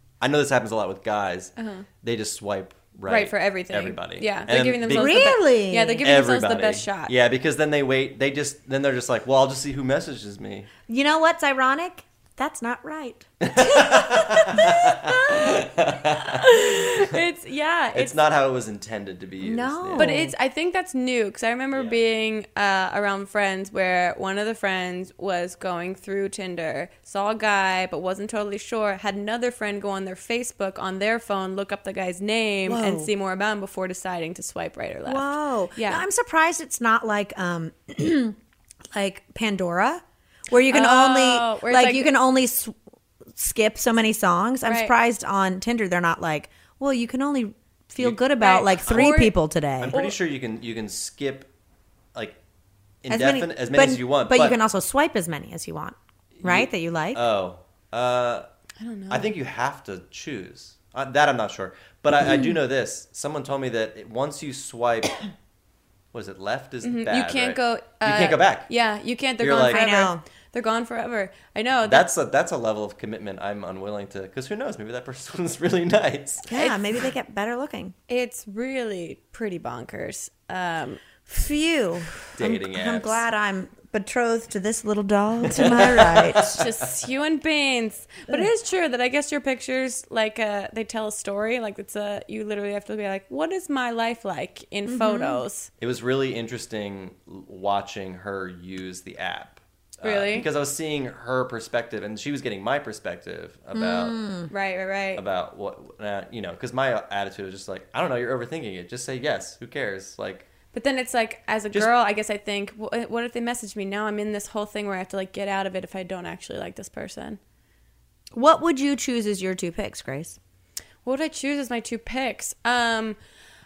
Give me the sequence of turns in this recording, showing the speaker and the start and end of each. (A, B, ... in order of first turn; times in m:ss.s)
0:00.2-0:05.3 A
0:01.6-0:01.8 B
0:03.1-0:07.1 B
0:04.9-0:06.0 C
0:06.0-0:10.7 A
0:10.9-0:13.2 C
0:13.4-0:17.1 A
0:13.6-0:18.2 B
0:17.9-0:20.2 A
0:19.4-0:20.3 C
0:19.9-0:36.0 B
0:32.6-0:33.1 C
0:35.0-0:38.4 C
0:38.9-0:42.8 C
0:40.7-0:42.1 B
0:43.3-0:50.0 C
0:44.6-0:44.9 B
0:48.4-0:49.4 B
0:48.8-0:49.1 A
0:49.8-0:51.5 A
0:49.9-0:50.1 B
0:52.1-0:52.4 A
0:53.0-0:54.6 A
0:53.1-0:57.2 C
0:56.4-0:58.4 A
0:58.8-0:59.3 B
0:59.1-1:05.3 A
1:02.2-1:02.5 C
1:06.1-1:08.7 A
1:06.8-1:12.0 B
1:09.4-1:09.8 A
1:09.7-1:10.2 C
1:11.8-1:16.5 A
1:16.5-1:17.9 C
1:16.5-1:16.8 B
1:18.1-1:21.2 B
1:21.3-1:26.6 C
1:22.4-1:23.2 A
1:25.5-1:26.6 A
1:26.4-1:35.7 B
1:34.9-1:35.4 C
1:35.8-1:44.2 A
1:40.0-1:40.4 B
1:43.7-1:44.5 C
1:44.5-1:45.2 B
1:45.2-1:50.5 A
1:50.7-1:57.4 B
1:58.3-2:00.4 C
2:01.0-2:03.2 B